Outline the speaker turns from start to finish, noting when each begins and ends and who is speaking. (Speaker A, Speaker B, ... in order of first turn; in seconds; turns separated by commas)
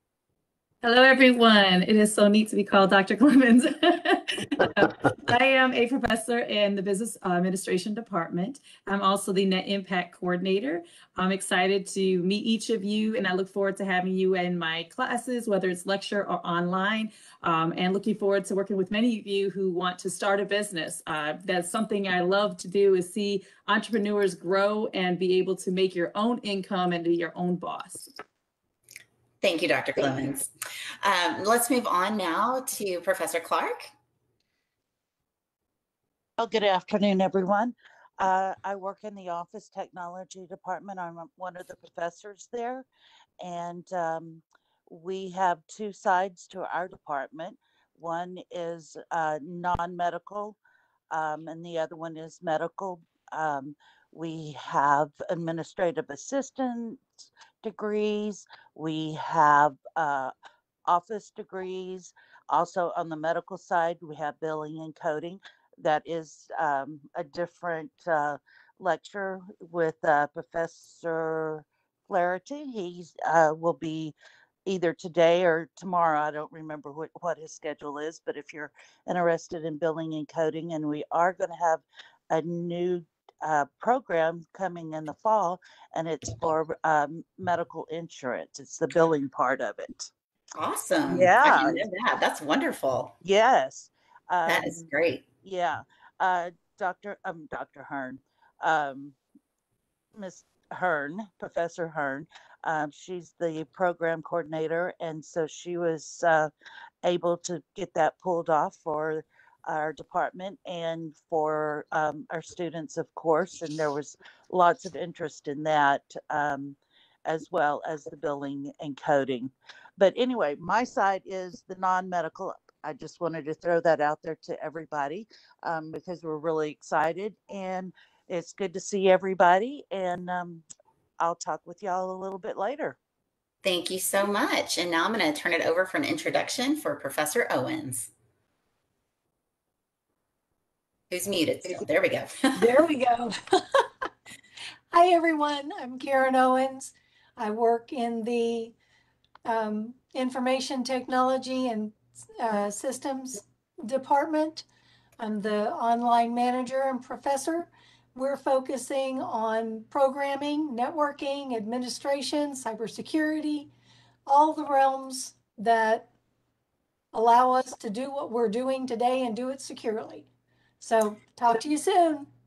Speaker A: 0.8-28.1, Speaker B: 29.4-30.5, Speaker B: 31.0-33.9, Speaker C: 36.4-42.9, Speaker C: 43.4-50.6, Speaker C: 51.1-60.3, Speaker C: 60.9-74.1, Speaker C: 74.7-90.1, Speaker B: 90.5-93.1, Speaker C: 91.1-91.8, Speaker C: 93.2-94.9, Speaker B: 94.5-95.2, Speaker C: 95.4-99.2, Speaker C: 100.1-106.5, Speaker C: 107.0-130.6, Speaker C: 131.2-133.0, Speaker B: 133.6-138.1, Speaker B: 141.1-142.7, Speaker D: 142.6-143.9, Speaker D: 144.9-148.7, Speaker D: 149.4-154.7, Speaker D: 155.2-163.7, Speaker D: 164.3-166.1, Speaker D: 167.1-170.3, Speaker D: 170.8-172.3